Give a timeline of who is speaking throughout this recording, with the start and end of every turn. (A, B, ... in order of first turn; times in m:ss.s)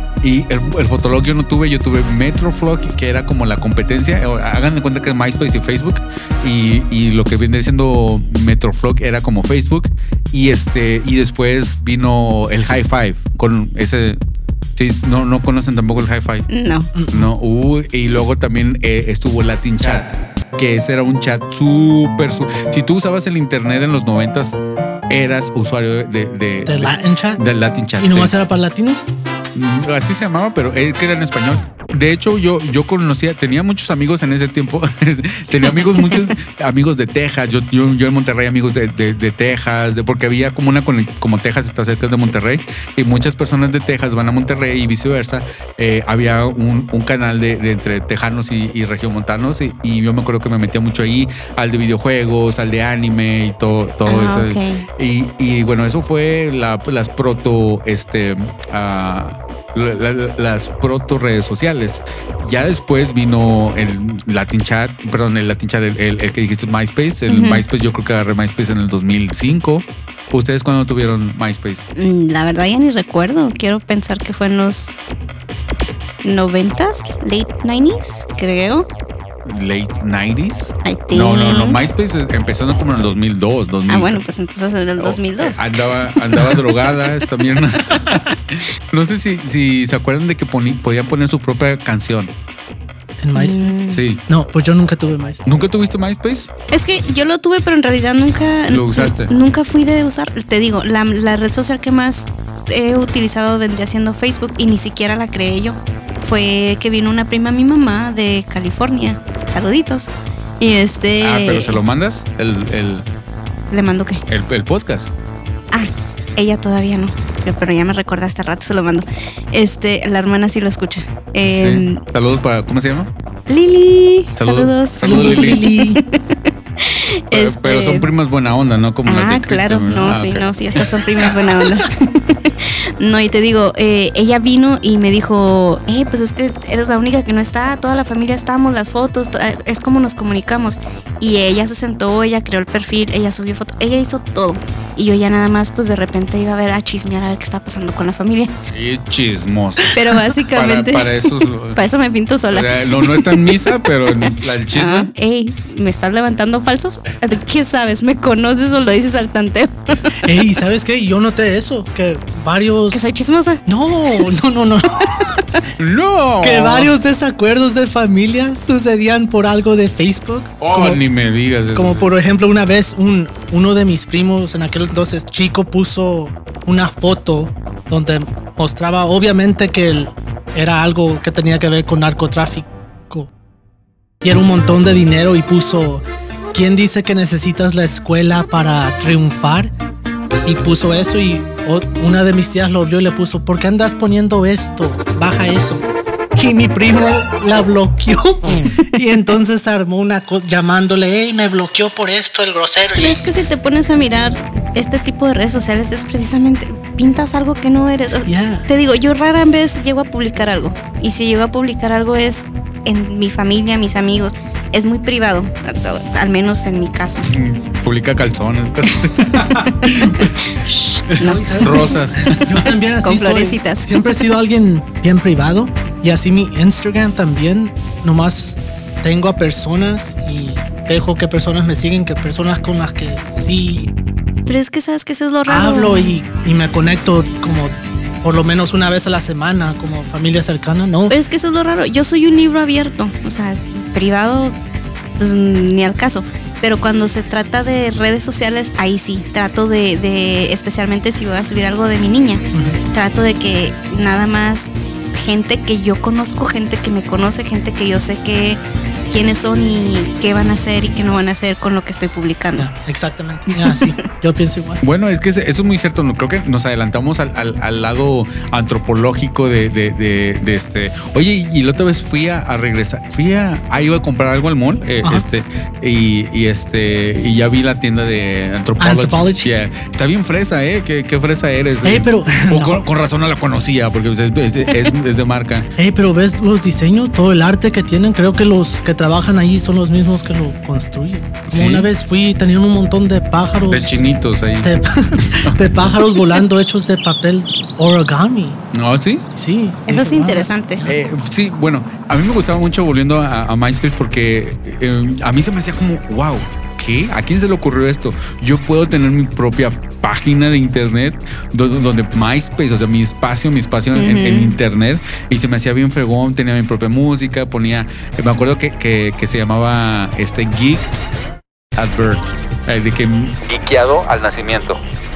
0:00.2-0:14.2 A
0:14.8-0:16.5 A
0:16.5-0:16.9 B
0:16.9-0:17.3 C
0:17.1-0:24.6 A
0:25.1-0:28.3 A
0:26.6-0:27.4 C
0:28.0-0:29.1 C
0:29.5-1:11.8 A
0:54.0-0:54.8 B
1:07.3-1:07.6 B
1:12.0-1:15.0 B
1:16.2-1:18.9 B
1:19.4-1:24.2 A
1:20.8-1:21.8 B
1:23.9-1:26.5 B
1:25.0-1:32.3 A
1:33.2-1:35.4 C
1:33.3-1:34.0 B
1:33.9-1:34.2 A
1:35.4-1:36.5 A
1:36.7-1:51.8 B
1:38.7-1:39.3 A
1:51.2-1:53.0 A
1:53.7-1:54.2 B
1:54.3-1:55.1 A
1:55.7-2:02.0 B
2:01.4-2:03.1 A
2:03.5-2:06.1 B
2:04.4-2:05.6 A
2:05.0-2:06.0 C
2:06.8-2:08.1 B
2:07.3-2:10.9 A
2:09.0-2:28.5 B
2:28.7-2:31.8 A
2:29.9-2:40.0 B
2:32.5-2:35.1 A
2:40.2-2:43.1 C
2:42.9-2:43.6 B
2:43.6-2:45.4 C
2:45.8-2:46.9 A
2:46.4-2:51.0 C
2:50.6-2:52.1 A
2:51.7-3:03.3 C
3:04.2-3:09.7 C
3:10.4-3:23.2 C
3:23.0-3:37.3 B
3:28.2-3:28.7 C
3:37.3-3:40.5 A
3:39.6-3:42.4 B
3:41.2-3:42.4 A
3:41.2-3:53.9 C
3:43.0-3:44.2 B
3:54.5-3:56.1 B
3:55.5-4:01.1 C
4:01.1-4:04.6 B
4:05.2-4:22.7 B
4:12.5-4:12.8 C
4:22.6-4:24.8 C
4:23.5-4:23.8 B
4:24.8-4:45.7 A
4:38.8-4:39.5 C
4:41.8-4:42.8 C
4:45.8-4:54.0 C
4:51.5-4:51.9 A
4:53.7-4:55.7 A
4:54.6-4:58.6 C
4:58.7-4:59.2 A
4:59.3-5:01.0 C
4:59.9-5:00.8 B
5:00.8-5:21.0 A
5:13.9-5:14.6 B
5:21.8-5:24.8 A